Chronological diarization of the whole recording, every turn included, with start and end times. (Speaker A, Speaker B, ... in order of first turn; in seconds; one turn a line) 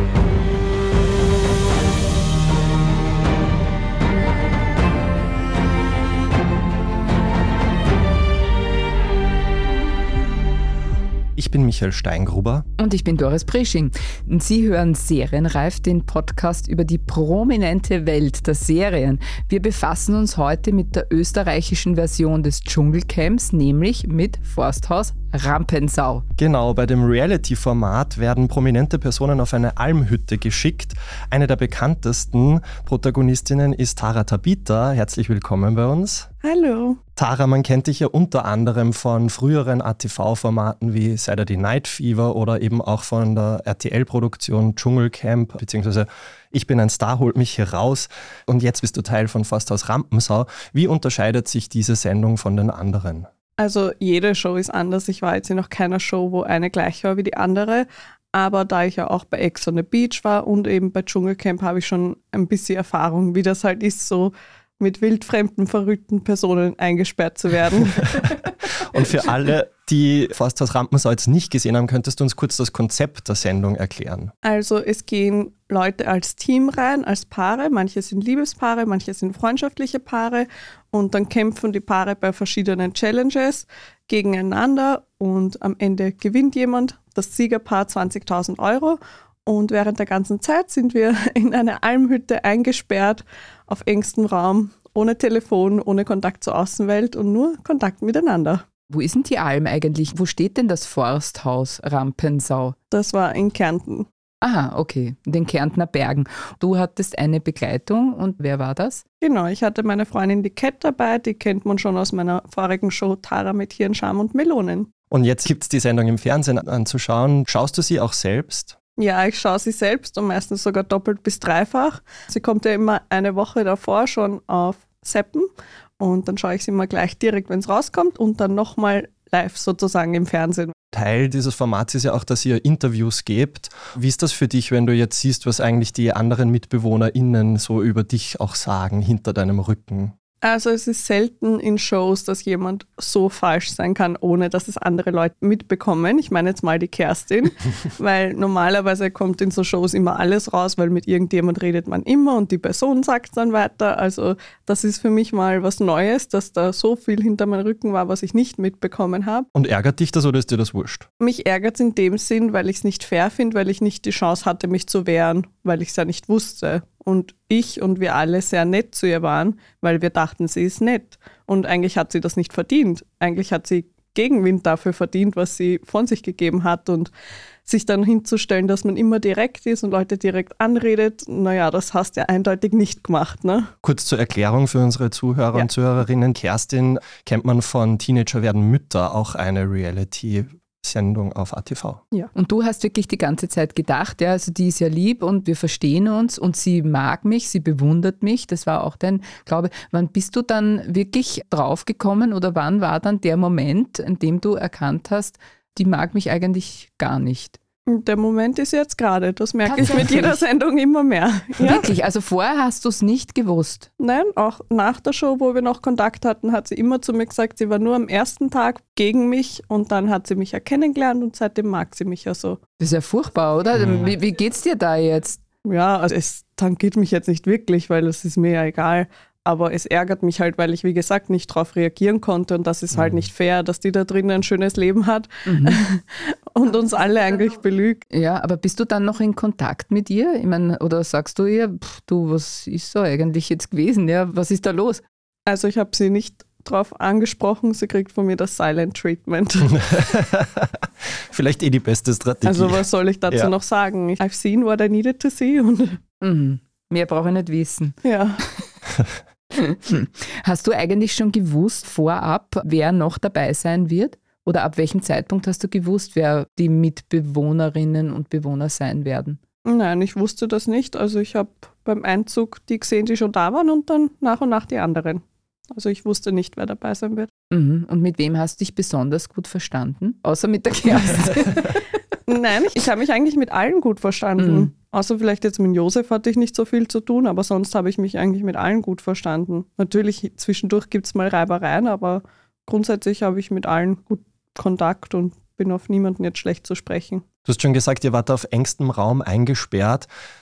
Speaker A: 11.4-12.7
Speaker B: 12.8-26.2
Speaker A: 26.4-36.3
Speaker C: 36.4-37.0
Speaker A: 37.2-53.3
Speaker C: 53.6-68.2
Speaker A: 68.0-74.3
Speaker C: 74.4-98.6
Speaker B: 98.9-102.8
Speaker C: 102.9-104.1
Speaker B: 104.4-109.0
Speaker C: 109.2-114.9
Speaker A: 115.1-118.8
Speaker C: 119.0-125.5
Speaker C: 126.0-130.8
Speaker A: 130.9-140.1
Speaker C: 140.4-159.5
Speaker A: 159.6-161.1
Speaker C: 161.2-177.1
Speaker C: 177.7-183.7
Speaker A: 183.8-192.0
Speaker B: 192.3-207.6
Speaker C: 207.9-211.8
Speaker B: 209.7-210.4
Speaker B: 211.7-213.9
Speaker C: 214.0-222.6
Speaker B: 222.8-225.4
Speaker A: 223.7-224.1
Speaker C: 225.7-238.0
Speaker A: 232.9-233.3
Speaker B: 235.5-235.8
Speaker B: 238.1-245.0
Speaker C: 245.5-249.8
Speaker A: 249.7-253.5
Speaker C: 252.4-256.0
Speaker B: 256.2-258.0
Speaker C: 258.0-258.4
Speaker B: 259.6-269.4
Speaker C: 269.7-277.3
Speaker B: 277.5-281.9
Speaker C: 282.3-297.3
Speaker B: 284.4-284.7
Speaker A: 297.5-300.1